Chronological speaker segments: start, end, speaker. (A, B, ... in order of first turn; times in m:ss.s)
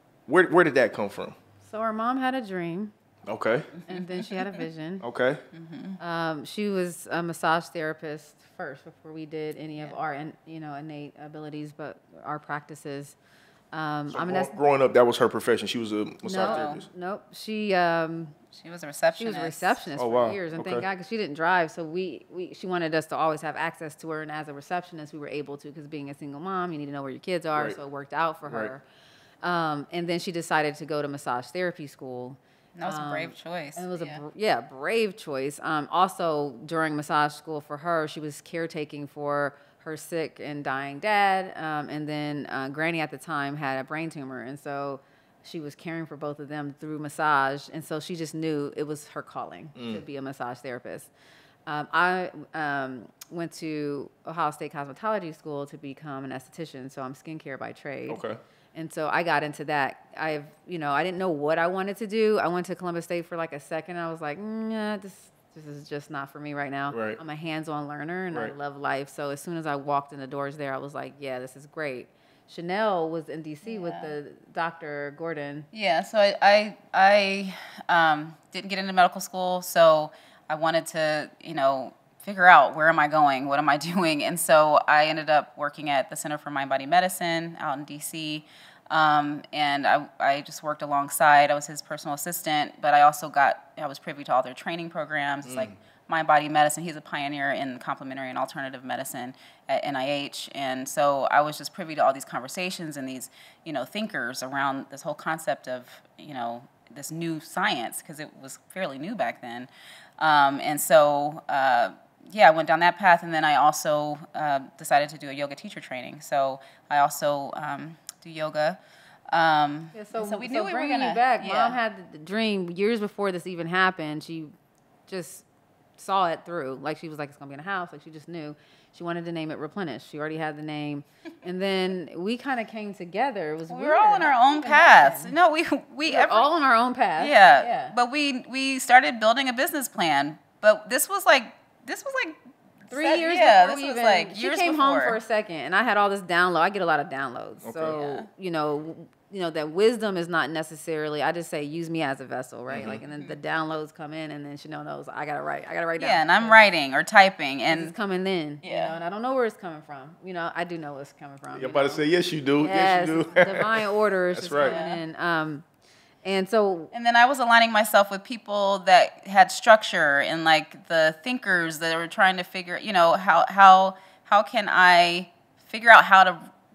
0:00.3-0:01.3 A
0:01.6-0:02.9 B
0:03.3-0:03.7 A
0:03.8-0:04.6 C
0:03.9-0:05.0 B
0:05.0-0:05.4 A
0:05.5-0:06.0 C
0:06.0-0:13.2 B
0:13.7-0:14.6 B
0:14.1-0:16.9 A
0:16.2-0:18.4 B
0:16.4-0:16.8 C
0:18.5-0:19.8 C
0:19.2-0:28.8 B
0:20.0-0:20.8 A
0:28.4-0:28.7 A
0:29.4-0:51.1 B
0:32.8-0:34.2 C
0:49.8-0:50.0 A
0:51.6-0:58.2 B
0:58.1-0:58.4 A
0:58.7-1:15.7 B
1:06.9-1:07.2 A
1:13.6-1:14.2 C
1:15.7-1:58.8 C
1:35.4-1:35.8 A
1:59.3-2:01.8 C
1:59.9-2:04.5 B
2:05.1-2:05.4 B
2:06.0-2:15.3 B
2:13.7-2:16.5 C
2:16.0-2:17.9 B
2:17.2-2:25.2 C
2:22.9-2:36.6 B
2:27.6-2:28.0 A
2:27.9-2:28.3 C
2:32.7-2:33.0 A
2:33.1-2:33.4 C
2:36.0-2:37.9 C
2:37.7-2:42.0 B
2:38.6-2:39.0 C
2:41.5-2:44.8 A
2:42.6-2:45.6 B
2:44.5-2:45.0 C
2:46.2-2:46.9 B
2:46.9-2:56.5 C